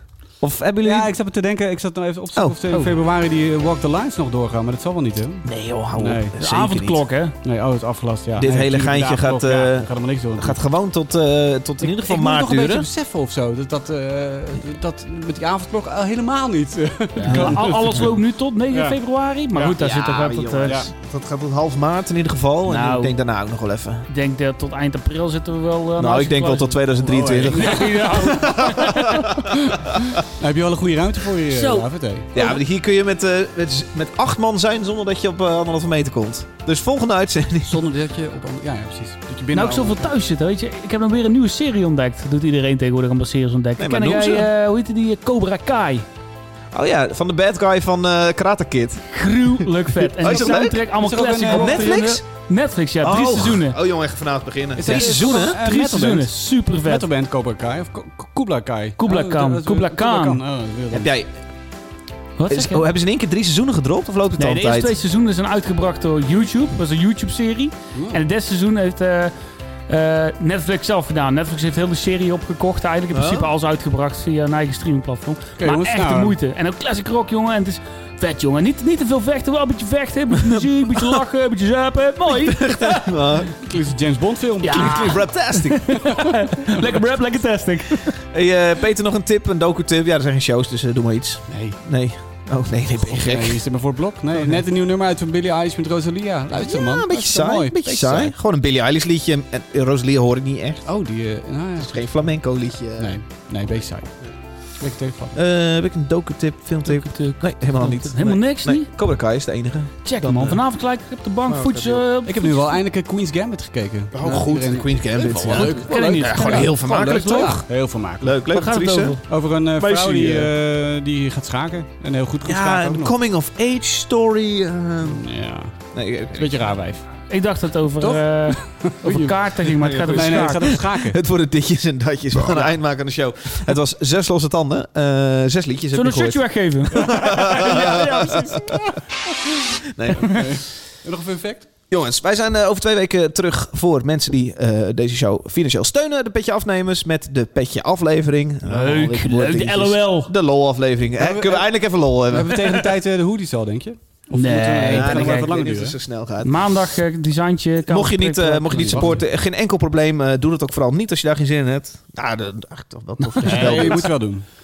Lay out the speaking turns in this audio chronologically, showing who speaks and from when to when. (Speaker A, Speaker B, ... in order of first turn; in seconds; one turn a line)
Speaker A: 0.4-1.1
Speaker B: 0.8-6.3
Speaker C: 2.7-3.0
Speaker A: 5.4-7.0
Speaker C: 6.4-7.3
Speaker B: 7.4-10.6
Speaker A: 8.3-12.9
Speaker B: 11.8-18.1
Speaker C: 17.2-20.8
Speaker A: 17.2-17.6
Speaker B: 18.7-19.0
Speaker A: 19.8-24.1
Speaker B: 20.6-20.9
Speaker C: 22.7-23.1
Speaker C: 24.1-26.9
Speaker A: 26.0-30.1
Speaker B: 27.0-28.5
Speaker C: 27.4-29.3
Speaker B: 29.4-32.3
Speaker C: 31.5-32.5
Speaker A: 32.3-37.8
Speaker B: 37.6-40.1
Speaker C: 39.5-46.0
Speaker A: 43.8-44.5
Speaker A: 46.7-49.6
Speaker C: 49.1-53.8
Speaker A: 50.2-50.8
Speaker B: 50.3-51.9
Speaker A: 51.5-52.2
Speaker A: 53.0-55.6
Speaker B: 54.8-61.1
Speaker C: 54.8-57.0
Speaker C: 59.0-60.4
Speaker A: 60.9-61.3
Speaker C: 62.4-62.8
Speaker A: 62.5-64.9
Speaker C: 64.4-69.3
Speaker B: 67.9-68.2
Speaker C: 69.9-83.0
Speaker A: 73.1-73.5
Speaker B: 75.6-76.4
Speaker A: 80.4-81.2
Speaker A: 82.2-83.6
Speaker B: 83.5-85.2
Speaker C: 84.6-88.2
Speaker A: 84.7-86.0
Speaker B: 86.0-86.8
Speaker A: 88.2-93.6
Speaker B: 91.5-91.8
Speaker B: 92.9-98.3
Speaker A: 96.6-100.9
Speaker B: 100.8-102.4
Speaker A: 101.8-104.3
Speaker B: 103.0-105.4
Speaker A: 105.3-110.6
Speaker C: 106.8-108.9
Speaker C: 110.0-112.8
Speaker B: 110.3-110.6
Speaker A: 111.5-112.0
Speaker B: 112.2-118.4
Speaker A: 114.1-117.7
Speaker C: 115.5-117.7
Speaker A: 118.2-120.5
Speaker C: 118.5-119.2
Speaker B: 119.3-123.1
Speaker A: 122.4-125.2
Speaker B: 125.0-125.8
Speaker A: 125.9-126.7
Speaker B: 126.3-127.1
Speaker C: 127.3-130.8
Speaker B: 128.0-131.2
Speaker A: 129.8-138.8
Speaker C: 135.9-138.8
Speaker B: 137.2-137.6
Speaker A: 139.9-140.4
Speaker B: 140.2-141.7
Speaker A: 141.9-152.8
Speaker C: 148.7-150.3
Speaker B: 151.2-151.7
Speaker B: 152.3-156.0
Speaker C: 154.3-155.5
Speaker A: 154.9-156.7
Speaker C: 156.4-159.1
Speaker A: 157.9-164.1
Speaker B: 158.7-159.2
Speaker C: 163.2-163.8
Speaker B: 163.4-164.4